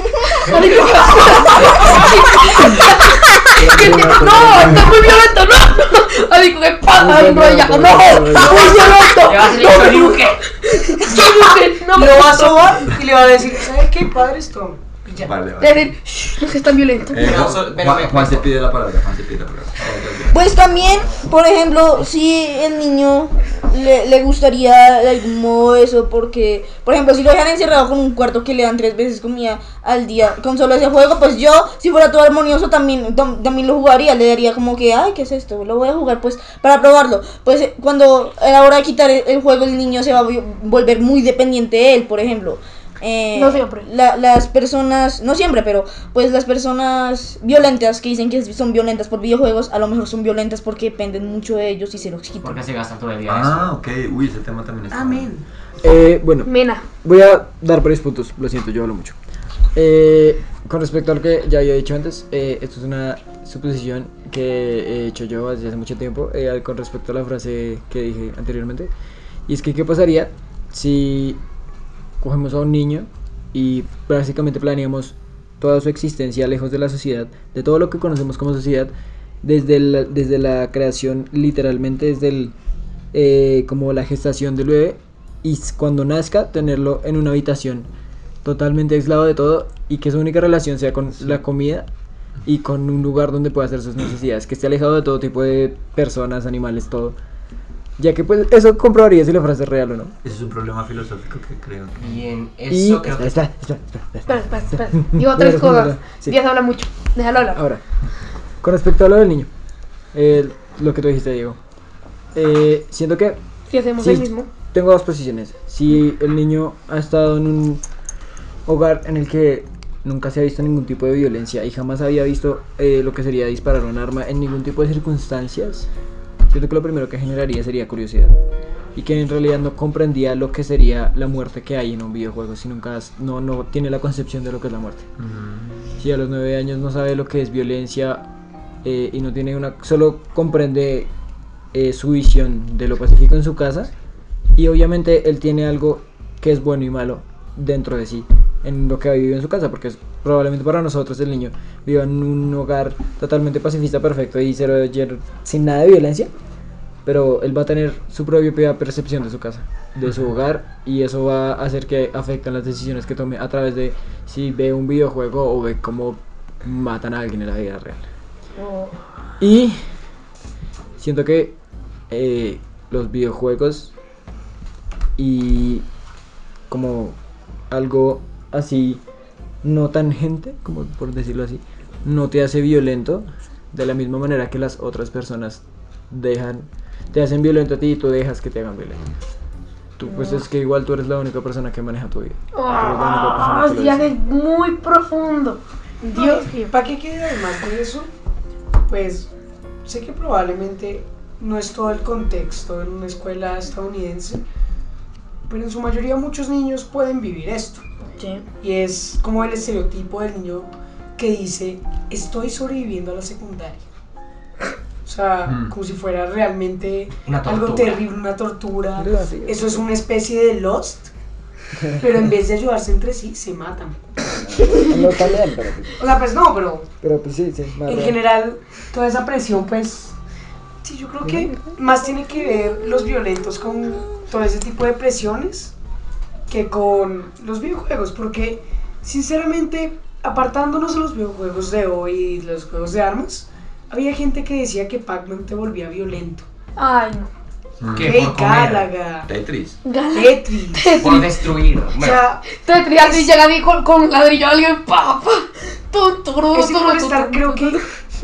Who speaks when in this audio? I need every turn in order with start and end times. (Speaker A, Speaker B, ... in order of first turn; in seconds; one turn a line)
Speaker A: 0.3-12.9
Speaker B: 1.6-1.9
Speaker C: 3.6-5.0
Speaker C: 6.9-8.8
Speaker D: 8.5-8.9
Speaker B: 8.7-10.4
Speaker D: 11.1-15.3
Speaker E: 15.2-16.0
Speaker A: 15.6-17.4
Speaker E: 17.1-20.4
Speaker B: 17.1-18.5
Speaker F: 20.3-52.6
Speaker A: 43.4-43.9
Speaker B: 52.4-53.7
Speaker E: 53.3-55.3
Speaker D: 54.9-55.5
Speaker C: 55.8-56.5
Speaker A: 56.5-56.9
Speaker C: 57.0-59.2
Speaker C: 59.8-68.9
Speaker C: 69.5-71.4
Speaker C: 72.2-82.5
Speaker C: 83.1-87.9
Speaker C: 88.4-91.9
Speaker C: 92.5-97.2
Speaker C: 98.0-100.2
Speaker E: 100.2-102.2
Speaker B: 102.0-103.4
Speaker C: 102.7-106.4
Speaker A: 104.3-107.6
Speaker C: 107.5-107.8
Speaker C: 108.6-109.5
Speaker C: 110.1-111.6
Speaker C: 112.3-113.4
Speaker A: 113.7-114.5
Speaker C: 114.0-117.8
Speaker C: 118.7-125.9
Speaker C: 126.5-128.4
Speaker C: 128.9-135.1
Speaker E: 135.2-135.9
Speaker C: 136.0-138.2
Speaker C: 138.8-141.1
Speaker C: 141.7-143.9
Speaker C: 144.6-156.3
Speaker C: 157.1-168.1
Speaker A: 168.6-169.0
Speaker C: 169.4-169.8
Speaker C: 171.0-171.6
Speaker C: 172.1-173.9
Speaker C: 175.2-175.8
Speaker C: 176.7-177.2
Speaker C: 177.7-179.0
Speaker C: 179.6-189.2
Speaker C: 190.0-194.1
Speaker A: 190.0-190.4
Speaker A: 192.5-196.8
Speaker D: 196.1-198.1
Speaker D: 198.9-199.3
Speaker D: 199.8-204.4
Speaker D: 205.5-207.8
Speaker A: 208.2-208.5
Speaker D: 208.6-213.8
Speaker D: 215.1-221.1
Speaker E: 215.4-215.7
Speaker B: 217.3-218.0
Speaker C: 219.0-219.8
Speaker C: 221.8-222.1
Speaker D: 222.0-224.0
Speaker C: 224.5-226.0
Speaker D: 226.0-226.9
Speaker C: 227.0-228.2
Speaker D: 227.8-230.2
Speaker D: 230.8-235.7
Speaker C: 231.2-231.7
Speaker D: 236.5-246.5
Speaker A: 246.8-247.3
Speaker E: 247.8-248.3
Speaker B: 247.9-248.9
Speaker D: 248.0-249.3
Speaker E: 249.3-249.8
Speaker A: 249.8-251.3
Speaker D: 250.1-251.3
Speaker B: 251.0-252.2
Speaker D: 251.9-253.4
Speaker A: 252.5-257.8
Speaker D: 256.5-257.8